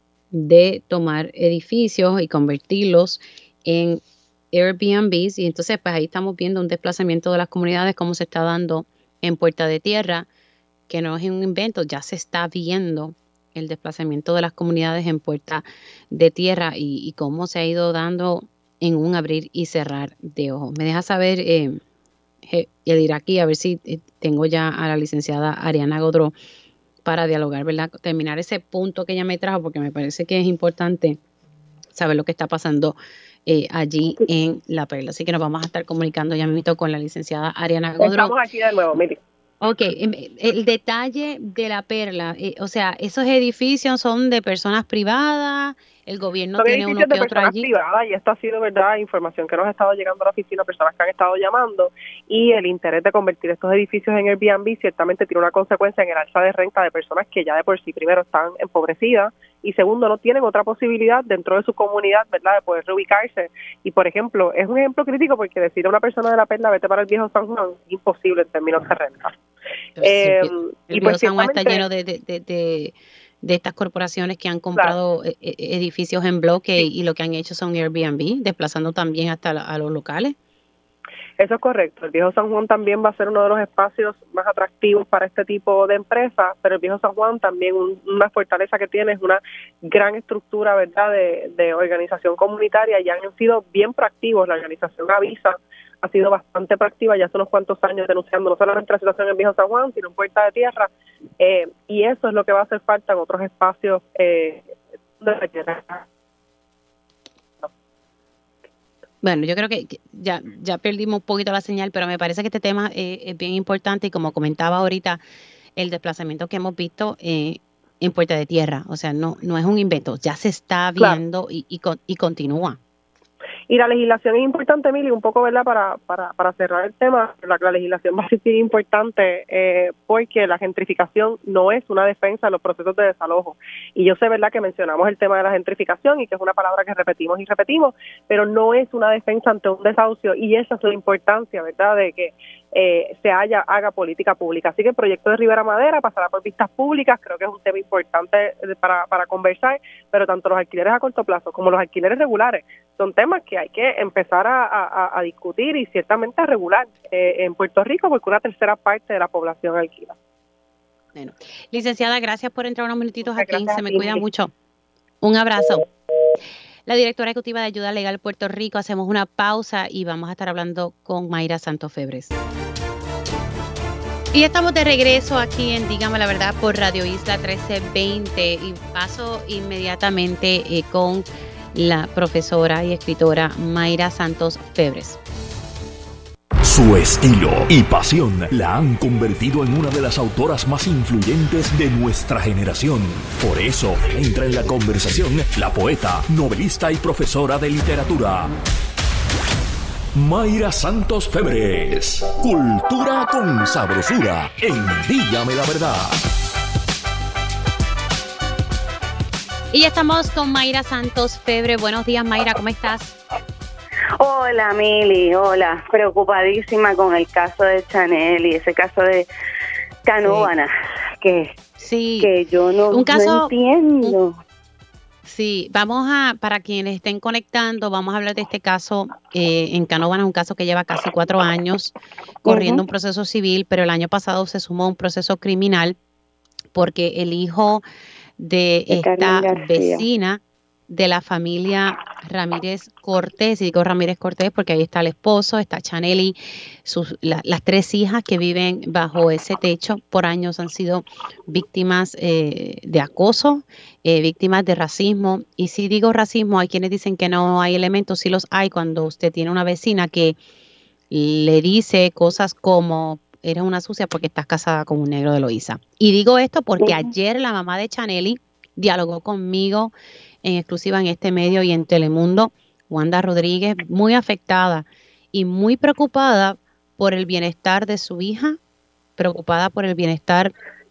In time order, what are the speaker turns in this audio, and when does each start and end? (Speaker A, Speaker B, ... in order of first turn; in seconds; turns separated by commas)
Speaker A: 0.3-10.2, Speaker A: 10.9-21.8, Speaker A: 22.5-26.3, Speaker A: 27.0-31.2, Speaker A: 31.9-38.3, Speaker B: 38.0-39.2, Speaker A: 39.6-47.7, Speaker B: 46.6-69.3, Speaker A: 70.0-80.3, Speaker B: 70.0-71.8, Speaker B: 81.4-104.7, Speaker B: 105.2-106.0, Speaker A: 109.2-115.2, Speaker A: 115.8-122.8, Speaker B: 123.7-160.1, Speaker A: 161.2-164.5, Speaker B: 163.2-164.2, Speaker A: 165.2-165.8, Speaker A: 166.9-172.3, Speaker A: 174.3-185.2, Speaker C: 186.6-198.5, Speaker C: 200.1-206.2, Speaker A: 209.7-213.1, Speaker D: 214.2-219.3, Speaker D: 220.1-221.5, Speaker A: 220.2-220.5, Speaker A: 221.8-222.3, Speaker D: 222.2-224.4, Speaker A: 222.9-223.5, Speaker A: 225.2-231.9, Speaker D: 232.4-232.8, Speaker A: 232.4-235.9, Speaker A: 236.7-237.8, Speaker A: 238.4-260.4, Speaker D: 238.9-240.1, Speaker A: 261.1-269.9, Speaker D: 266.8-267.1, Speaker A: 270.4-278.6, Speaker A: 279.2-280.5